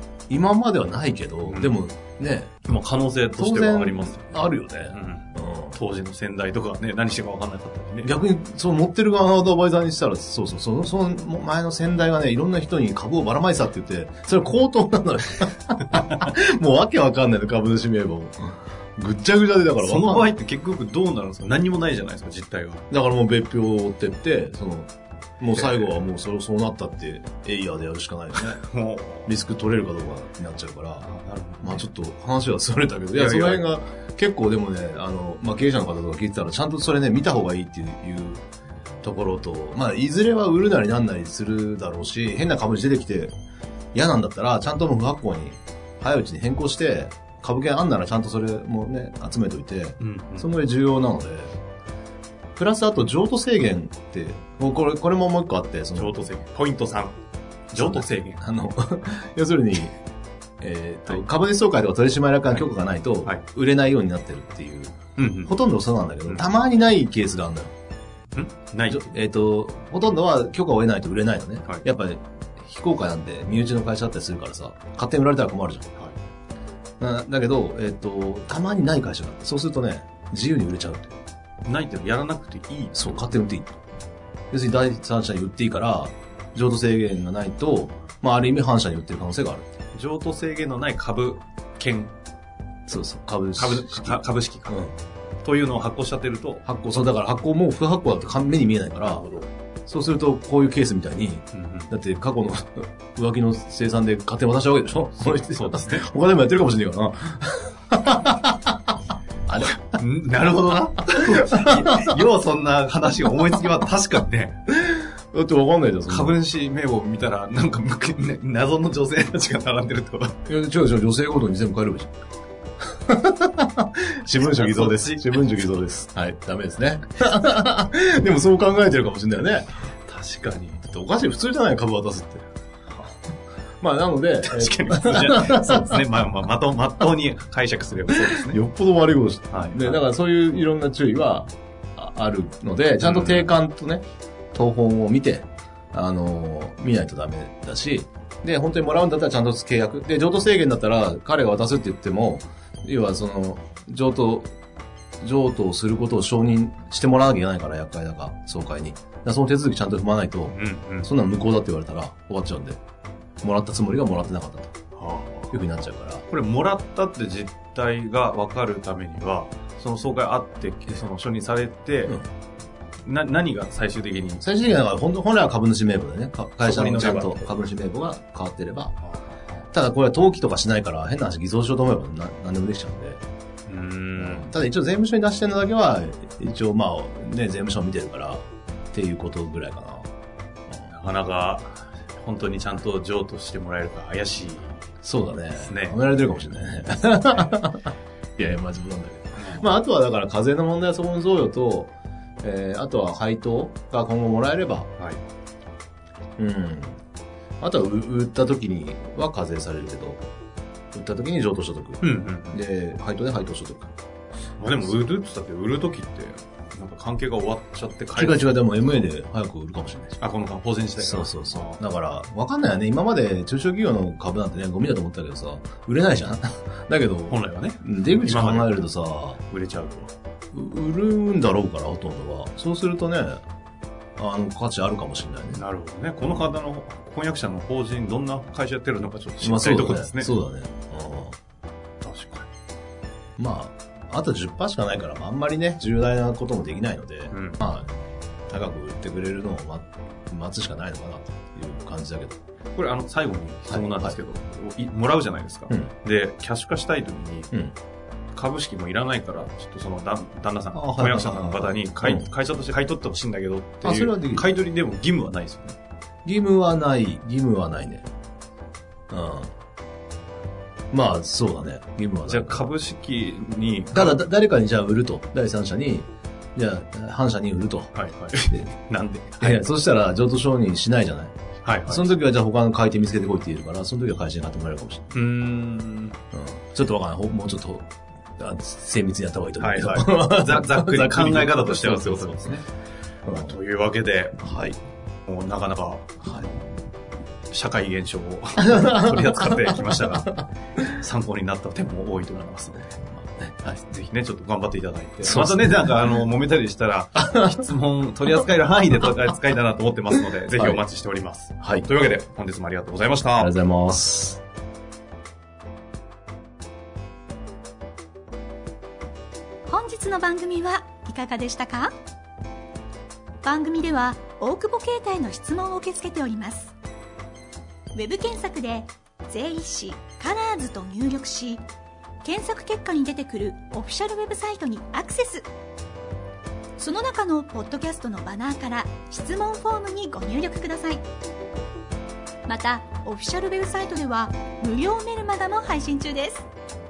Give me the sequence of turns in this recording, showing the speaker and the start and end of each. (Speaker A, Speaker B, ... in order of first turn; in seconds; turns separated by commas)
Speaker A: 0.3-2.5, Speaker B: 1.4-1.8, Speaker B: 2.6-8.1, Speaker A: 3.4-5.8, Speaker A: 8.0-20.3, Speaker B: 15.9-16.2, Speaker B: 19.8-22.8, Speaker A: 22.9-28.6, Speaker B: 25.5-25.9, Speaker B: 28.4-29.3, Speaker A: 29.2-31.1, Speaker B: 31.0-31.8, Speaker A: 31.6-38.4, Speaker B: 33.1-33.7, Speaker A: 39.0-43.3, Speaker A: 43.9-51.5, Speaker B: 50.0-50.5, Speaker A: 52.5-56.2, Speaker B: 55.9-57.1, Speaker B: 57.7-58.4, Speaker A: 57.7-60.0, Speaker A: 60.6-67.7, Speaker B: 65.2-65.5, Speaker B: 68.3-69.1, Speaker A: 68.9-75.9, Speaker A: 77.0-81.2, Speaker B: 81.6-83.2, Speaker A: 82.9-83.7, Speaker A: 84.5-89.7, Speaker B: 89.9-92.1, Speaker A: 92.9-94.9, Speaker B: 93.6-94.8, Speaker B: 95.4-96.6, Speaker A: 96.7-99.2, Speaker B: 99.0-99.5, Speaker A: 99.8-108.8, Speaker B: 101.5-101.9, Speaker B: 105.2-106.1, Speaker A: 109.5-109.7, Speaker B: 109.8-114.6, Speaker A: 111.2-112.1, Speaker A: 114.7-116.3, Speaker B: 116.1-120.4, Speaker A: 120.5-122.1, Speaker A: 123.1-129.7, Speaker B: 124.4-125.4, Speaker B: 130.1-130.8, Speaker A: 130.8-132.4, Speaker A: 133.8-136.1, Speaker B: 134.4-138.6, Speaker A: 138.1-154.5, Speaker B: 139.5-140.0, Speaker B: 143.0-143.5, Speaker A: 155.2-162.8, Speaker B: 160.5-161.1, Speaker A: 163.4-164.7, Speaker B: 164.9-165.6, Speaker A: 165.5-166.2, Speaker B: 166.3-172.2, Speaker B: 173.0-174.4, Speaker A: 174.4-178.9, Speaker B: 176.6-177.4, Speaker A: 179.7-183.2, Speaker B: 183.7-184.5, Speaker A: 184.2-190.1, Speaker B: 190.9-194.8, Speaker A: 195.0-204.9, Speaker B: 195.6-196.0, Speaker B: 199.4-199.7, Speaker A: 206.4-207.0, Speaker A: 207.6-210.2, Speaker A: 210.9-213.9, Speaker B: 212.0-212.6, Speaker B: 214.6-219.1, Speaker A: 218.2-220.2, Speaker B: 220.2-221.8, Speaker A: 221.0-229.4, Speaker B: 227.3-228.9, Speaker B: 229.5-230.1, Speaker A: 230.5-233.4, Speaker A: 234.2-235.6, Speaker B: 235.5-240.3, Speaker A: 239.4-241.3, Speaker B: 242.0-242.4, Speaker A: 243.4-247.9, Speaker B: 247.3-247.6, Speaker A: 248.5-252.4, Speaker B: 252.8-257.5, Speaker A: 253.7-254.1, Speaker B: 258.3-265.8, Speaker A: 260.7-262.2, Speaker A: 263.8-264.5, Speaker A: 266.2-268.1, Speaker A: 269.1-269.5, Speaker A: 270.9-272.7, Speaker B: 272.3-274.3, Speaker A: 273.9-277.9, Speaker B: 277.9-279.6, Speaker A: 279.4-281.3, Speaker B: 281.6-282.1, Speaker A: 281.9-285.2, Speaker B: 285.1-286.1, Speaker A: 286.3-292.6, Speaker B: 289.6-292.6, Speaker A: 293.2-293.6, Speaker B: 293.3-294.4, Speaker A: 294.4-294.8, Speaker B: 295.3-296.5, Speaker A: 296.2-296.5, Speaker B: 297.5-302.9, Speaker A: 298.6-300.4, Speaker A: 303.2-303.7, Speaker B: 303.6-313.5, Speaker A: 305.2-305.9, Speaker A: 307.2-307.5, Speaker A: 310.5-310.8, Speaker A: 311.6-311.9, Speaker A: 313.4-314.4, Speaker C: 319.6-321.9, Speaker C: 323.4-326.7, Speaker C: 327.9-331.6, Speaker C: 332.2-335.4, Speaker C: 336.8-341.0, Speaker C: 342.5-346.5